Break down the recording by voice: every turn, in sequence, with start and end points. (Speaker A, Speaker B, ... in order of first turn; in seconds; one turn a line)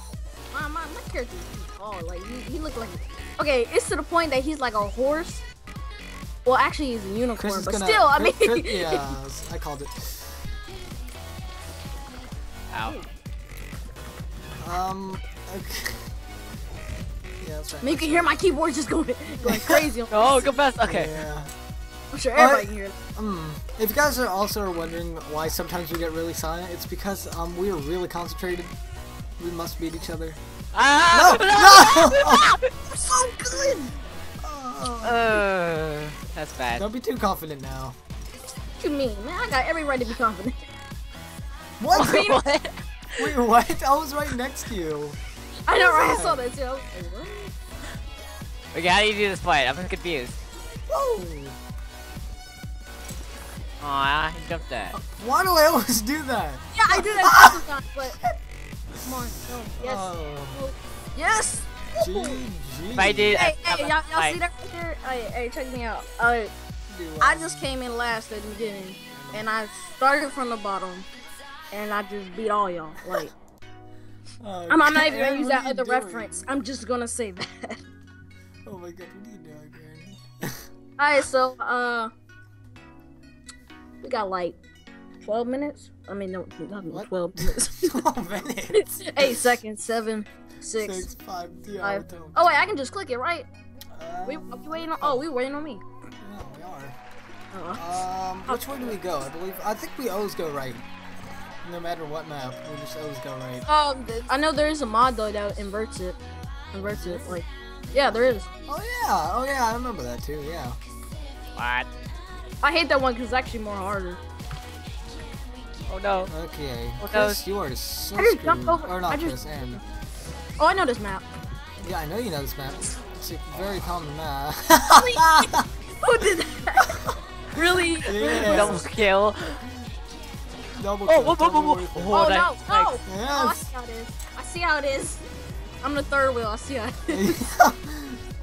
Speaker A: 0.5-5.4
Speaker A: 6.4-9.1
Speaker B: 7.3-10.3
Speaker C: 12.7-13.0
Speaker B: 14.6-16.1
Speaker B: 17.4-18.3
Speaker A: 17.8-20.6
Speaker B: 19.4-19.9
Speaker C: 20.1-21.1
Speaker B: 20.8-21.5
Speaker A: 22.1-22.9
Speaker B: 22.3-28.7
Speaker B: 29.4-30.4
Speaker C: 30.7-32.7
Speaker B: 31.1-32.5
Speaker A: 33.0-33.9
Speaker B: 33.1-33.9
Speaker B: 34.4-35.4
Speaker C: 35.0-36.9
Speaker B: 36.8-38.0
Speaker A: 38.8-40.7
Speaker B: 41.8-42.4
Speaker C: 41.9-43.4
Speaker B: 43.2-45.2
Speaker A: 45.6-47.5
Speaker B: 45.8-46.4
Speaker C: 48.7-50.4
Speaker B: 50.9-51.6
Speaker C: 53.8-55.0
Speaker B: 54.9-57.7
Speaker A: 56.7-58.2
Speaker A: 59.0-62.4
Speaker B: 59.8-60.6
Speaker B: 62.0-63.4
Speaker C: 62.9-64.4
Speaker A: 63.3-66.5
Speaker B: 66.9-67.7
Speaker A: 67.2-71.1
Speaker B: 69.1-69.5
Speaker A: 71.7-73.3
Speaker B: 74.4-76.5
Speaker A: 74.7-77.8
Speaker B: 78.6-80.6
Speaker A: 81.0-82.1
Speaker A: 84.0-84.6
Speaker A: 85.2-88.0
Speaker B: 86.9-89.5
Speaker A: 88.7-91.1
Speaker B: 90.8-92.5
Speaker A: 91.8-93.5
Speaker B: 93.9-95.3
Speaker A: 94.2-95.8
Speaker B: 96.2-97.0
Speaker A: 97.5-99.0
Speaker B: 97.8-100.8
Speaker B: 101.6-103.7
Speaker A: 103.7-106.2
Speaker A: 106.7-108.5
Speaker B: 106.8-107.4
Speaker B: 108.7-110.8
Speaker C: 111.5-111.9
Speaker A: 112.6-114.2
Speaker C: 115.9-116.3
Speaker B: 116.3-119.8
Speaker C: 117.0-117.4
Speaker A: 118.2-119.8
Speaker A: 120.6-121.2
Speaker B: 121.8-125.7
Speaker A: 125.0-128.8
Speaker B: 128.0-128.9
Speaker C: 128.4-129.6
Speaker B: 130.7-132.2
Speaker C: 131.1-132.9
Speaker A: 132.1-135.2
Speaker B: 133.1-133.7
Speaker A: 135.8-137.4
Speaker B: 137.1-138.2